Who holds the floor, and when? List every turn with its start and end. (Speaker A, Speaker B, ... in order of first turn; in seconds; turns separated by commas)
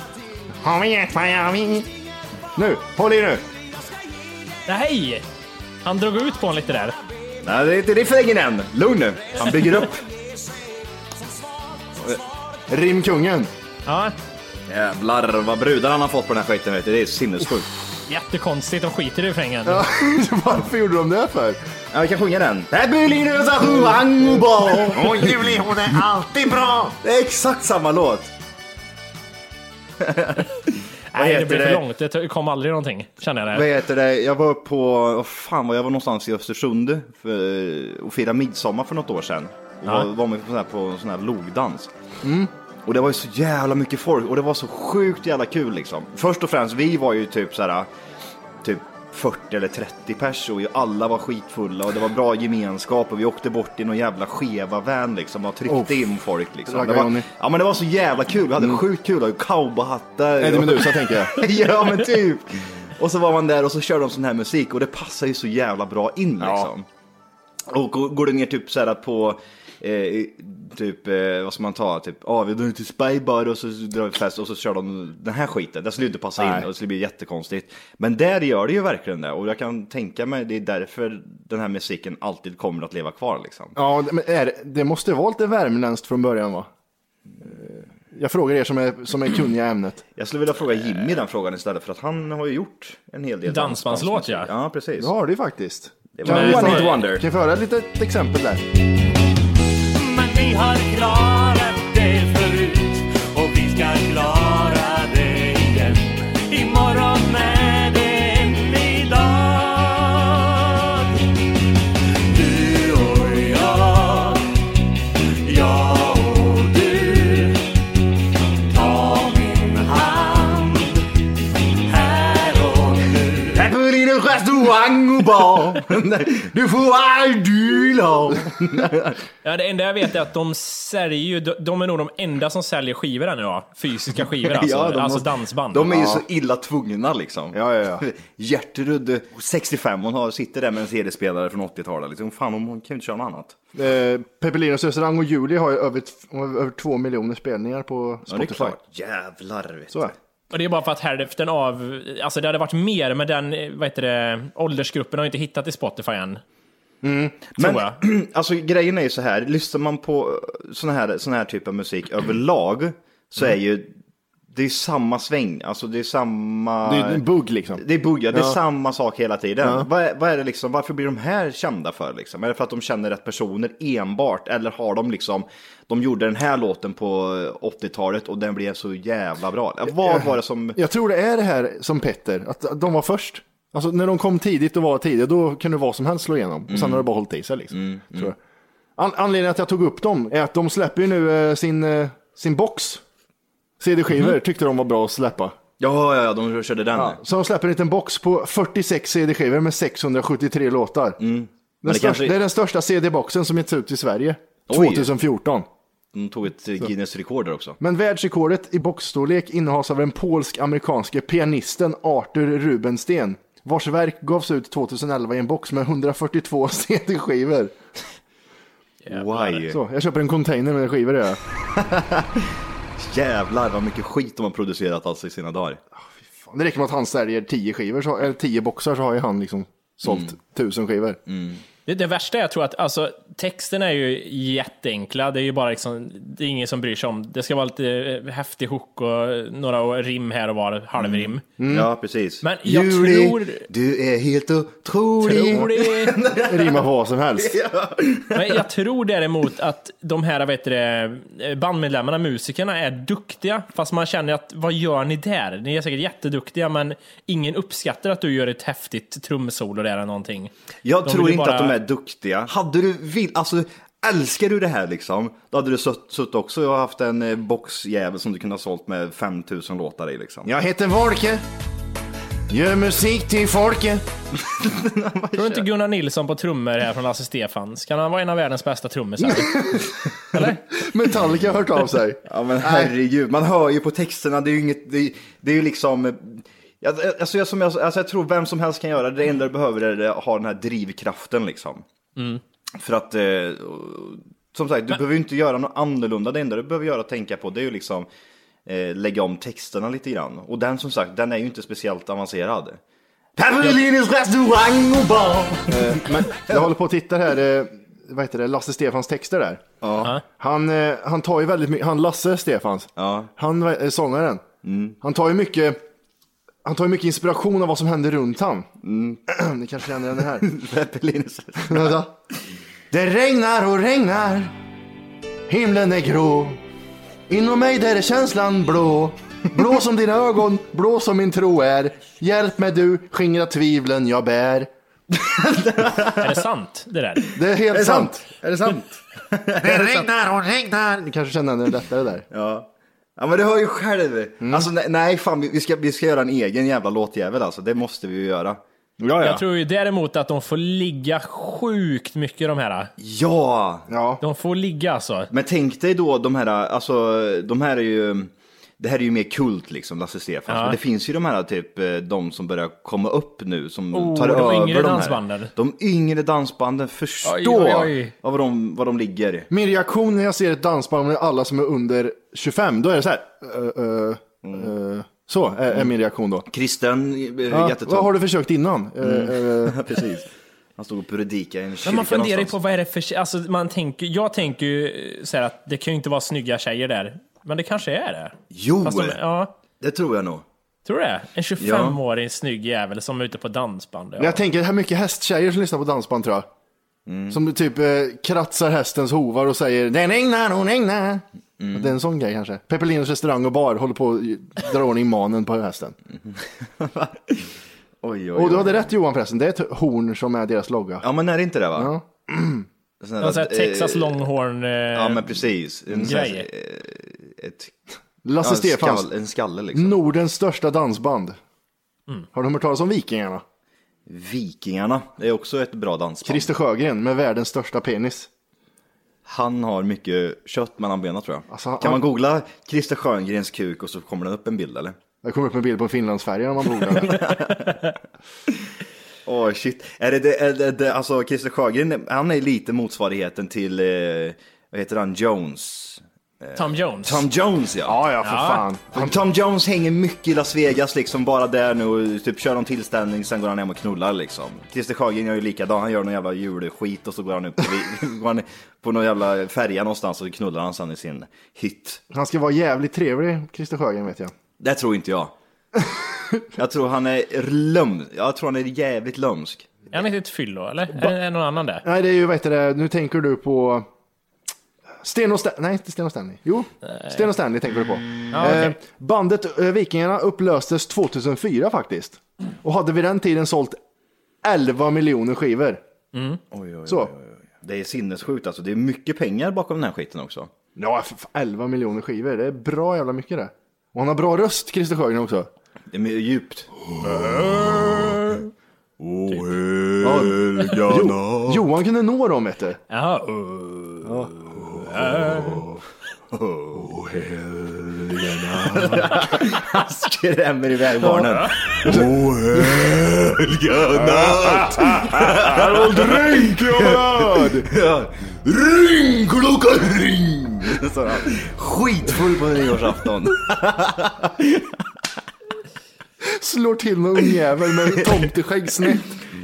Speaker A: 0.7-1.6, Speaker B: 1.0-1.6, Speaker A: 2.6-3.4, Speaker C: 4.7-5.2, Speaker C: 5.8-7.0, Speaker B: 7.4-10.0, Speaker C: 9.4-9.7, Speaker A: 12.7-13.5, Speaker C: 13.9-14.2, Speaker B: 14.7-17.7, Speaker C: 18.1-19.9, Speaker A: 19.7-21.6, Speaker B: 21.9-25.2, Speaker D: 24.9-26.9, Speaker B: 27.0-28.3, Speaker B: 30.0-31.8, Speaker C: 31.1-33.7, Speaker B: 33.5-41.9, Speaker A: 42.2-42.5, Speaker B: 42.9-47.9, Speaker B: 48.6-66.9, Speaker A: 55.7-56.1, Speaker A: 56.7-57.3, Speaker A: 58.6-58.8, Speaker A: 60.4-61.4, Speaker A: 66.4-66.7, Speaker B: 67.7-83.8, Speaker A: 76.4-76.7, Speaker A: 83.8-86.7, Speaker A: 87.4-90.0, Speaker B: 90.2-95.1, Speaker C: 93.5-94.5, Speaker A: 95.0-98.6, Speaker B: 96.2-97.2, Speaker C: 96.2-97.0, Speaker E: 100.1-105.9, Speaker E: 106.5-109.0, Speaker E: 113.0-113.6, Speaker B: 123.5-129.2, Speaker C: 129.4-135.9, Speaker B: 134.4-143.6, Speaker A: 135.9-136.2, Speaker A: 137.5-138.0, Speaker A: 143.8-148.8, Speaker B: 148.3-150.2, Speaker C: 150.5-156.4, Speaker A: 157.0-157.4, Speaker C: 157.6-158.0, Speaker B: 157.6-163.9, Speaker B: 164.5-167.2, Speaker A: 166.8-168.6, Speaker B: 167.8-180.8, Speaker A: 169.6-169.9, Speaker A: 180.0-188.4, Speaker B: 186.7-187.1, Speaker B: 187.7-188.3, Speaker A: 189.0-193.0, Speaker A: 193.8-195.6, Speaker B: 195.8-197.2, Speaker A: 196.9-201.2, Speaker B: 201.2-202.4, Speaker A: 201.8-205.7, Speaker B: 204.7-205.1, Speaker B: 206.1-207.8, Speaker A: 207.8-217.8, Speaker C: 219.1-219.6, Speaker B: 219.1-219.8, Speaker A: 219.7-221.4, Speaker B: 221.8-225.8, Speaker A: 226.2-231.2, Speaker B: 230.1-230.3, Speaker B: 231.3-231.6, Speaker C: 231.9-241.4, Speaker B: 241.0-246.8, Speaker A: 241.6-241.9, Speaker C: 242.4-243.7, Speaker C: 245.2-246.2, Speaker A: 246.4-247.6, Speaker B: 247.4-248.6, Speaker C: 248.3-260.5, Speaker B: 260.9-270.5, Speaker C: 261.1-261.8, Speaker A: 270.4-271.4, Speaker A: 272.5-274.0, Speaker B: 274.4-275.7, Speaker C: 275.4-279.6, Speaker A: 279.2-282.9, Speaker C: 280.3-280.6, Speaker B: 282.3-291.9, Speaker B: 292.8-298.1, Speaker B: 298.7-302.8, Speaker B: 303.4-306.7, Speaker A: 305.7-309.7, Speaker B: 309.8-310.1, Speaker A: 310.4-314.5, Speaker B: 313.0-313.3, Speaker B: 314.6-315.0, Speaker A: 315.0-315.8, Speaker A: 316.6-318.7, Speaker B: 318.8-319.2, Speaker A: 319.3-320.5, Speaker B: 320.4-322.0, Speaker A: 321.6-322.1, Speaker A: 322.9-324.5, Speaker A: 325.5-326.6, Speaker A: 327.3-334.7, Speaker B: 335.1-336.4, Speaker C: 336.2-337.3, Speaker A: 337.4-338.2, Speaker B: 337.7-340.1, Speaker D: 339.6-341.0, Speaker A: 341.0-342.3, Speaker B: 342.3-348.6, Speaker A: 344.4-344.7, Speaker A: 349.0-349.4, Speaker C: 349.2-352.9, Speaker B: 353.0-353.9, Speaker A: 353.9-354.2, Speaker C: 354.2-355.3, Speaker B: 355.3-369.5, Speaker C: 360.5-360.8, Speaker C: 363.9-365.5, Speaker C: 367.2-368.1, Speaker A: 369.5-376.5, Speaker B: 374.4-374.7, Speaker B: 376.5-378.1, Speaker A: 377.5-379.8, Speaker B: 379.0-382.5, Speaker C: 381.8-389.5, Speaker B: 388.5-389.2, Speaker B: 389.8-390.4, Speaker C: 390.9-394.4, Speaker B: 391.6-392.0, Speaker A: 394.2-396.5, Speaker B: 397.1-397.4, Speaker A: 397.3-406.0, Speaker B: 401.6-401.9, Speaker B: 406.3-407.5, Speaker B: 408.0-408.9, Speaker A: 408.3-411.1, Speaker B: 411.0-411.9, Speaker A: 411.8-412.7, Speaker B: 413.0-414.2, Speaker C: 413.2-415.3, Speaker B: 414.9-417.8, Speaker C: 416.1-416.5, Speaker A: 418.2-419.1, Speaker B: 418.4-420.0, Speaker A: 419.7-421.4, Speaker A: 422.3-423.4, Speaker B: 424.1-426.5, Speaker A: 426.2-428.3, Speaker B: 429.3-435.0, Speaker A: 431.5-432.0, Speaker A: 435.2-437.2, Speaker B: 436.9-437.8, Speaker B: 439.3-448.0, Speaker C: 446.6-447.2, Speaker A: 447.9-449.1, Speaker C: 448.2-448.6, Speaker B: 448.9-462.0, Speaker A: 462.1-464.4, Speaker B: 464.6-465.3, Speaker A: 465.8-466.4, Speaker B: 466.6-469.7, Speaker C: 469.9-471.8, Speaker A: 471.8-473.9, Speaker A: 475.0-483.8, Speaker C: 478.3-478.8, Speaker A: 484.4-485.8, Speaker C: 486.1-486.4, Speaker B: 486.5-490.5, Speaker A: 486.9-487.1, Speaker A: 490.8-495.5, Speaker B: 495.9-498.4, Speaker B: 499.0-501.7, Speaker A: 500.0-502.8, Speaker C: 502.9-503.7, Speaker A: 504.1-504.5, Speaker B: 504.5-505.8, Speaker B: 506.3-524.7, Speaker A: 508.1-509.0, Speaker A: 511.8-513.0, Speaker A: 514.0-517.7, Speaker A: 526.2-529.1